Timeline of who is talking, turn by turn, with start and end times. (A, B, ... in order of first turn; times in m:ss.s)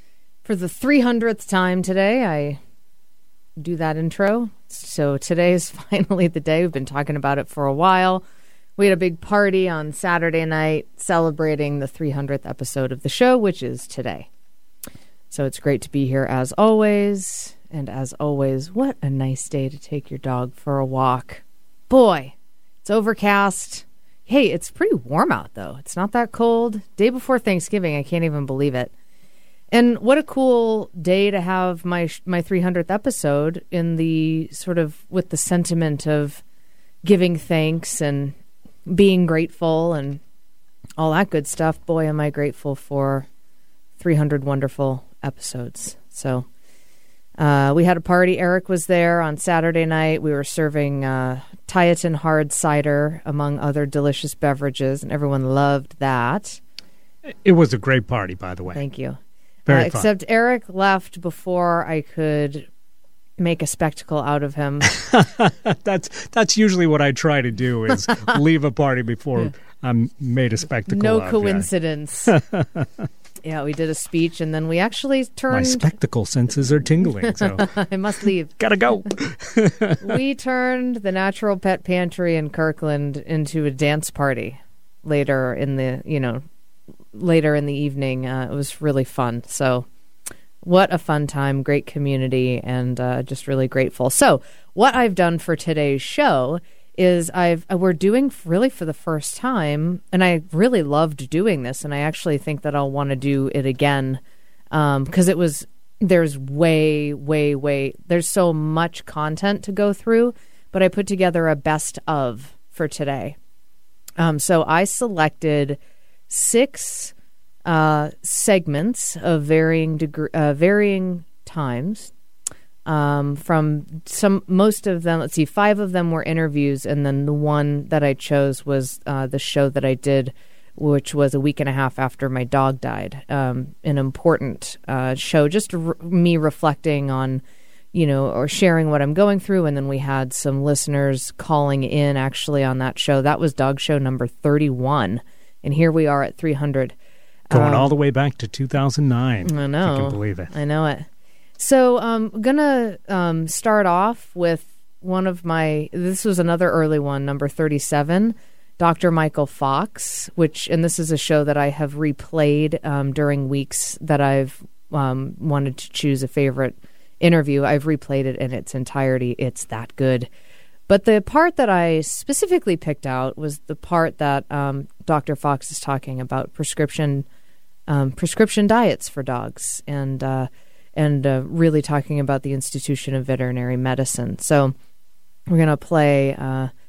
0:00.4-0:02.6 A
0:03.6-0:08.2 A
0:08.8-0:14.3 A
0:15.3-0:28.9 A
0:29.7-0:36.4 A
0:37.0-0:38.4 A
0:38.9-0:40.2 A
0:41.0-0:43.3 A
0:44.0-0:46.5 A
0:47.4-0:56.6 A
0:57.4-0:58.8 B
0:58.7-0:59.2 A
0:59.7-1:00.1 B
0:59.7-1:02.7 A
1:03.4-1:04.9 A
1:05.0-1:11.7 B
1:07.9-1:08.4 A
1:10.9-1:12.3 A
1:12.3-1:12.8 B
1:13.4-1:16.0 A
1:15.5-1:17.7 B
1:17.0-1:19.1 A
1:18.6-1:20.2 B
1:20.0-1:26.4 A
1:27.2-1:29.9 A
1:30.6-1:44.2 A
1:44.7-1:53.4 A
1:54.2-1:55.8 A
1:56.3-1:57.1 A
1:57.7-2:02.1 A
2:02.9-2:17.4 A
2:17.9-2:27.0 A
2:27.5-2:27.9 A
2:27.5-2:30.5 B
2:29.4-2:31.1 A
2:31.6-2:50.3 A
2:50.9-2:57.2 A
2:57.9-3:04.7 A
3:05.5-3:06.7 A